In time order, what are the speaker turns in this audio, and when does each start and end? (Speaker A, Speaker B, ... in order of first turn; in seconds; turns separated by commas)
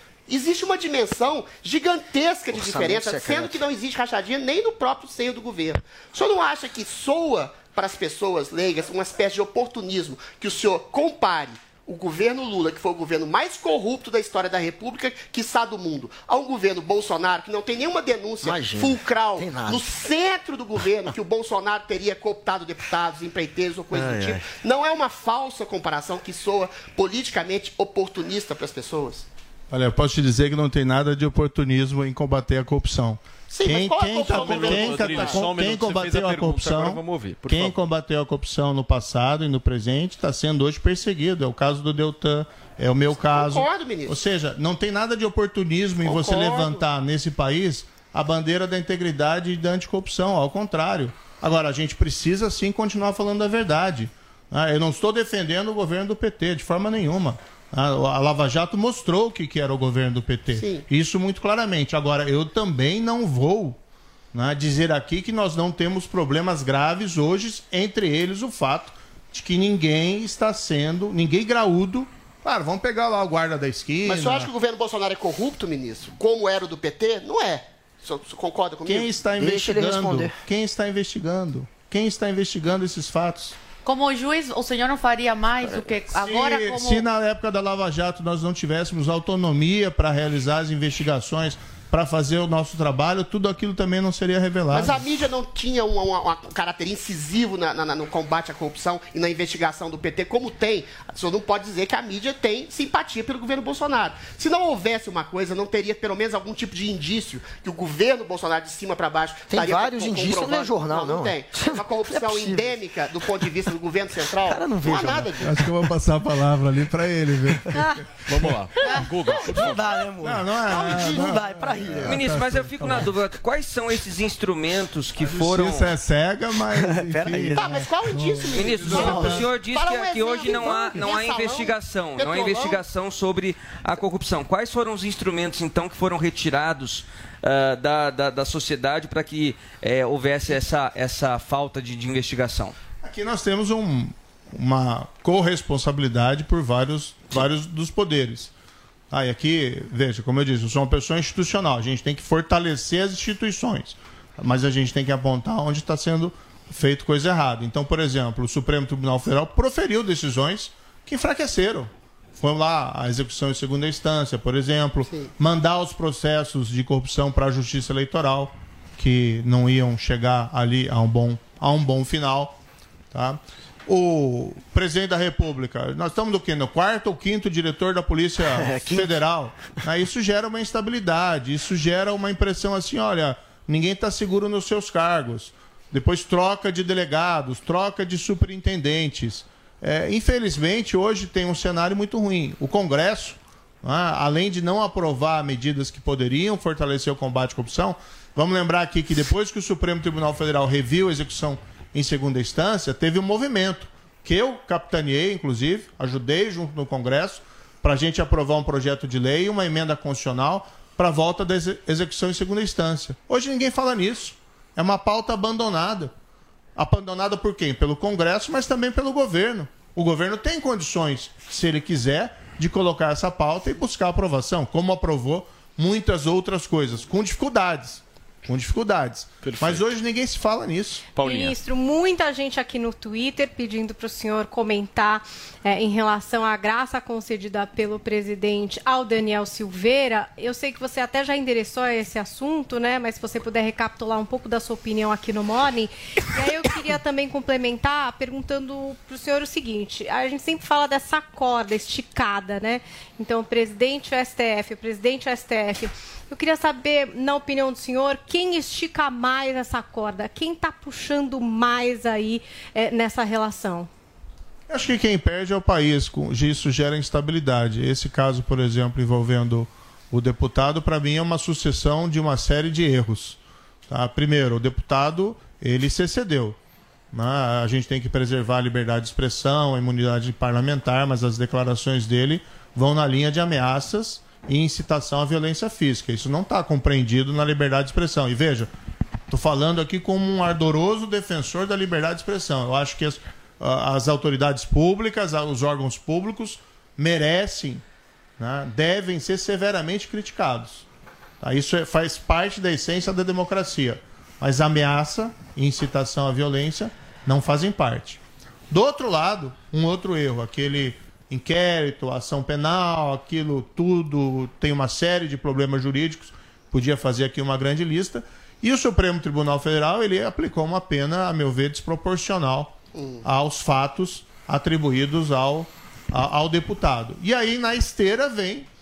Speaker A: 0.3-29.3, Speaker B: 2.5-3.6, Speaker B: 18.4-19.9, Speaker B: 23.9-24.4, Speaker C: 29.7-63.8, Speaker A: 33.5-35.4, Speaker D: 34.3-37.8, Speaker A: 43.3-44.2, Speaker A: 46.0-46.8, Speaker A: 60.5-60.9, Speaker C: 64.3-74.5, Speaker A: 74.0-79.2, Speaker C: 78.9-83.6, Speaker B: 79.4-80.4, Speaker E: 83.8-87.0, Speaker C: 86.1-95.0, Speaker A: 94.7-115.5, Speaker B: 109.5-112.8, Speaker B: 114.5-115.6, Speaker C: 115.4-117.9, Speaker D: 118.3-119.8, Speaker B: 118.8-122.9, Speaker C: 120.2-123.2, Speaker F: 122.0-125.9, Speaker C: 125.2-129.6, Speaker B: 126.7-127.9, Speaker A: 127.5-132.8, Speaker F: 128.5-142.8, Speaker B: 128.8-129.4, Speaker C: 130.4-130.8, Speaker C: 143.0-148.5, Speaker C: 149.1-172.6, Speaker C: 173.1-216.1, Speaker B: 178.4-179.2, Speaker C: 216.8-231.1, Speaker D: 229.4-229.9, Speaker D: 231.2-231.6, Speaker G: 231.2-263.9, Speaker C: 264.7-276.6, Speaker C: 277.1-288.7, Speaker C: 289.3-297.8, Speaker C: 298.4-300.9, Speaker C: 301.4-328.7, Speaker A: 322.9-323.3